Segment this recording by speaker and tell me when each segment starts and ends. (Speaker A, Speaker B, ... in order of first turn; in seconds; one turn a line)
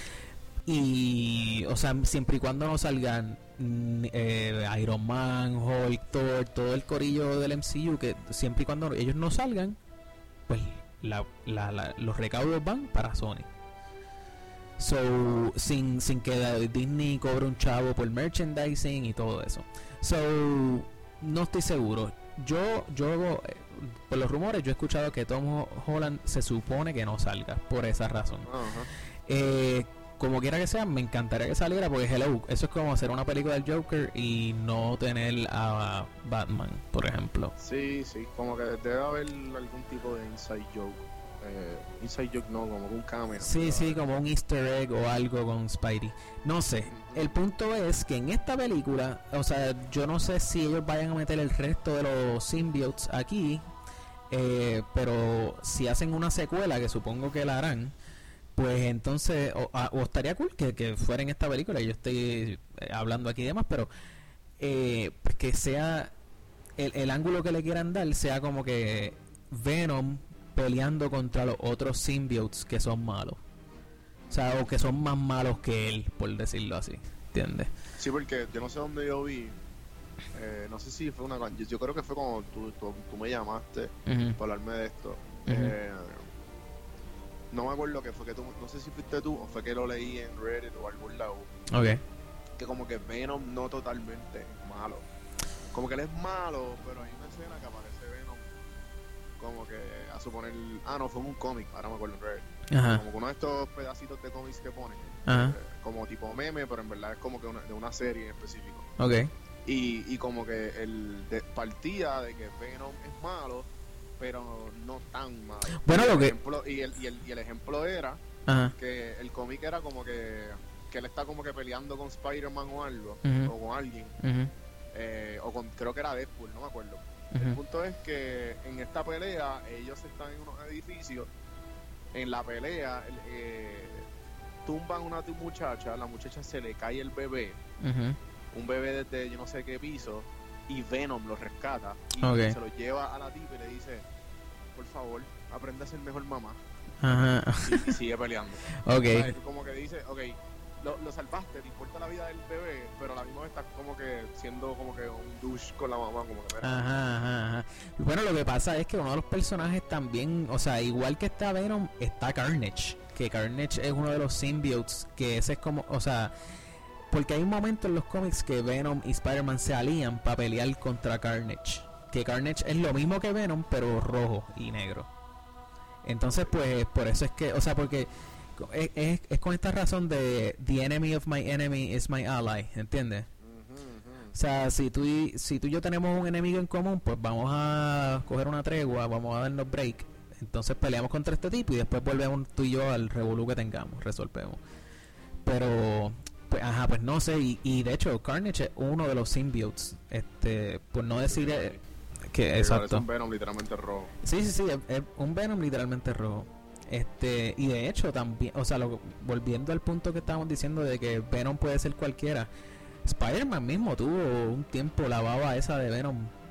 Speaker A: 0.7-9.8
Speaker A: 10.5-13.5
Speaker A: 14.8-28.5
Speaker B: 15.2-15.5
Speaker B: 28.4-28.9
Speaker A: 29.3-37.5
Speaker B: 37.6-44.0
Speaker A: 43.4-53.6
Speaker B: 46.9-47.4
Speaker A: 54.3-58.0
Speaker A: 58.5-63.9
Speaker A: 64.6-66.1
Speaker A: 66.8-73.4
Speaker A: 74.3-77.7
Speaker B: 78.0-79.6
Speaker B: 80.3-86.3
Speaker A: 84.1-84.4
Speaker A: 85.5-85.8
Speaker B: 87.5-91.5
Speaker A: 91.7-92.0
Speaker B: 92.6-95.0
Speaker B: 95.7-98.5
Speaker B: 99.4-108.9
Speaker A: 102.7-103.0
Speaker A: 105.3-105.6
Speaker A: 109.0-109.3
Speaker B: 109.6-113.7
Speaker B: 114.2-118.2
Speaker A: 115.8-116.3
Speaker A: 118.5-118.8
Speaker B: 118.8-124.2
Speaker A: 123.2-123.5
Speaker A: 124.2-124.5
Speaker B: 124.9-131.3
Speaker A: 127.3-127.6
Speaker B: 132.1-134.1
Speaker B: 134.7-137.6
Speaker A: 137.8-138.2
Speaker B: 138.5-144.1
Speaker A: 142.2-142.6
Speaker B: 144.8-156.8
Speaker A: 147.0-147.9
Speaker A: 148.8-149.4
Speaker A: 156.6-166.3
Speaker A: 167.1-175.1
Speaker A: 176.0-183.3
Speaker B: 176.3-176.6
Speaker B: 183.4-184.4
Speaker A: 184.3-194.6
Speaker A: 195.4-201.8
Speaker B: 201.1-201.8
Speaker A: 202.3-203.1
Speaker B: 202.5-204.1
Speaker A: 204.2-212.5
Speaker A: 213.1-216.3